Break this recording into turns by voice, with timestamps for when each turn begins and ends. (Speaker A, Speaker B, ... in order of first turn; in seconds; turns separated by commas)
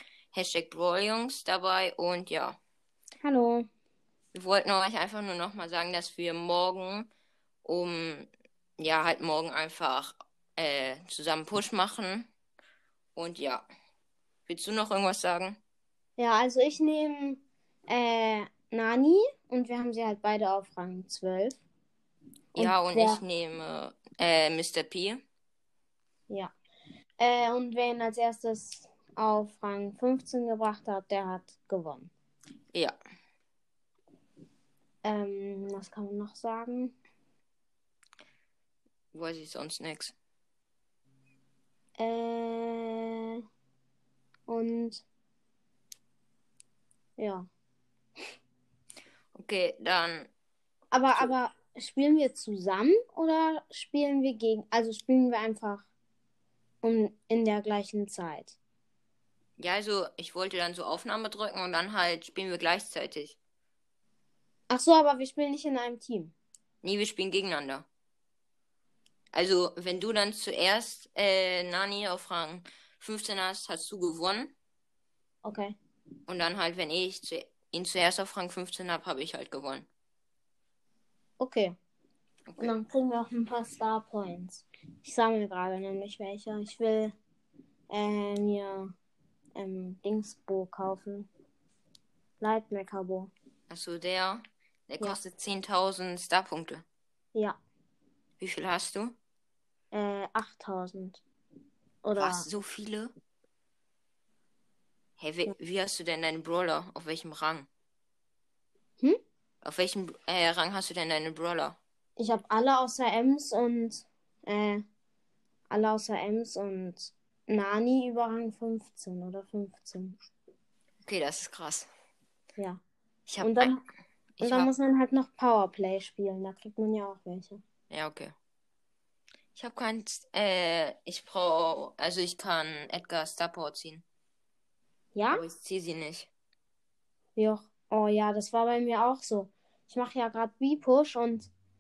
Speaker A: 0.3-2.6, Speaker B: 3.2-3.7, Speaker A: 4.3-7.1, Speaker A: 7.6-12.3, Speaker A: 13.2-13.7, Speaker A: 14.5-15.6, Speaker B: 16.2-21.6, Speaker A: 22.5-25.2, Speaker B: 22.6-23.2, Speaker B: 27.2-32.1, Speaker B: 35.0-36.9, Speaker A: 39.1-40.1, Speaker B: 42.0-43.4, Speaker B: 44.5-45.0, Speaker B: 47.2-47.5, Speaker A: 49.3-50.3, Speaker B: 50.9-55.9, Speaker B: 56.8-58.5, Speaker A: 59.6-63.4, Speaker B: 64.7-66.3, Speaker A: 66.8-67.8, Speaker A: 69.3-74.5, Speaker B: 75.4-75.8, Speaker A: 76.3-79.9, Speaker B: 81.4-81.7, Speaker B: 82.6-87.1, Speaker B: 87.9-88.9, Speaker B: 89.5-91.3, Speaker B: 92.4-93.3, Speaker A: 93.7-96.8, Speaker A: 98.4-99.2, Speaker B: 99.9-101.2, Speaker B: 102.0-102.5, Speaker A: 102.2-103.1, Speaker A: 105.2-107.7, Speaker A: 109.6-111.8, Speaker B: 112.2-114.8, Speaker B: 115.7-120.2, Speaker A: 121.0-121.9, Speaker A: 123.3-123.7, Speaker B: 123.4-123.8, Speaker A: 124.4-124.7, Speaker B: 124.4-127.6, Speaker A: 127.9-128.3, Speaker A: 129.6-134.0, Speaker B: 135.1-135.4, Speaker A: 135.3-136.3, Speaker B: 137.3-141.5